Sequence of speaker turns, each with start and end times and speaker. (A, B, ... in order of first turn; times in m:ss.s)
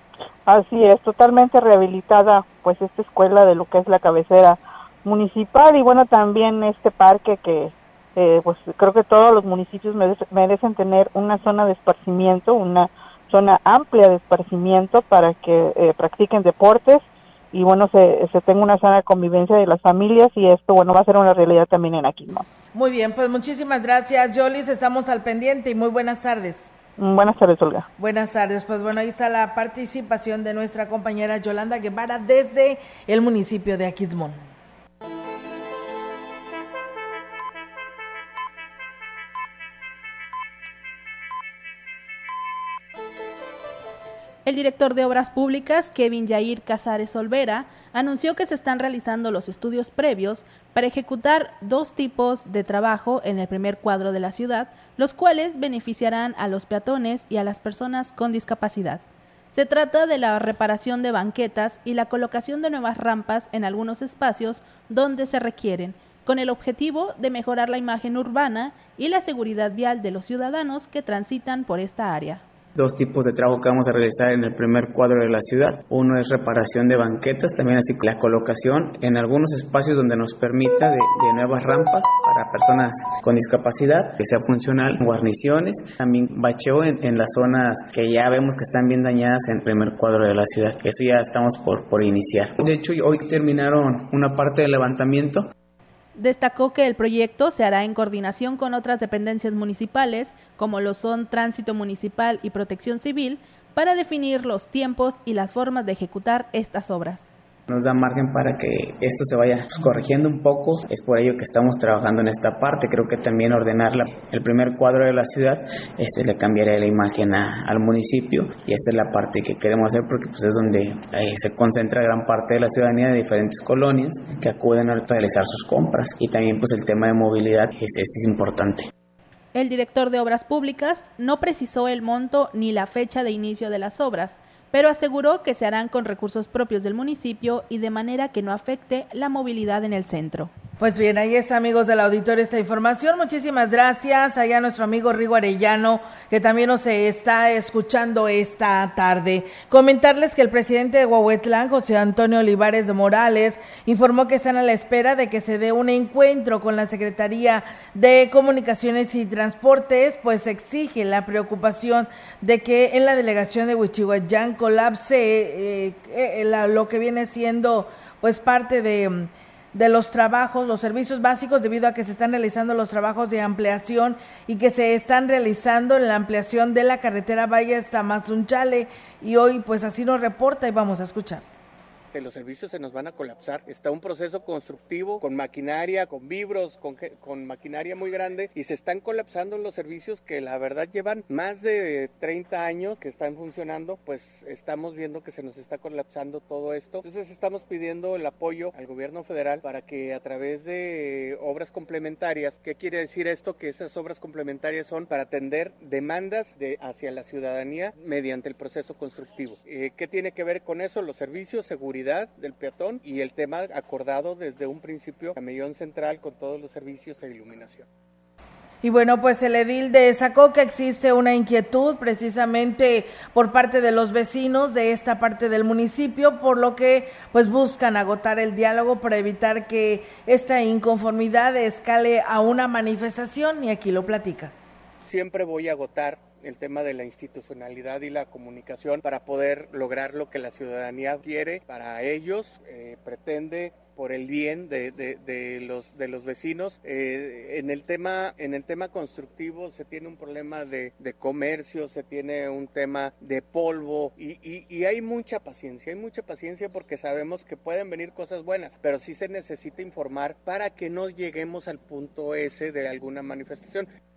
0:00.4-0:22.4 A
0:22.7-0:26.6 B
0:27.0-0:27.9 A
0:28.0-0:34.4 B
0:44.4-1:12.4 C
1:12.8-1:35.5 D
1:36.2-1:47.3 C
1:47.7-2:08.9 D
2:09.5-2:20.5 C
2:20.8-3:01.4 B
3:02.1-3:37.8 E
3:38.8-3:54.5 B
3:55.0-4:23.9 E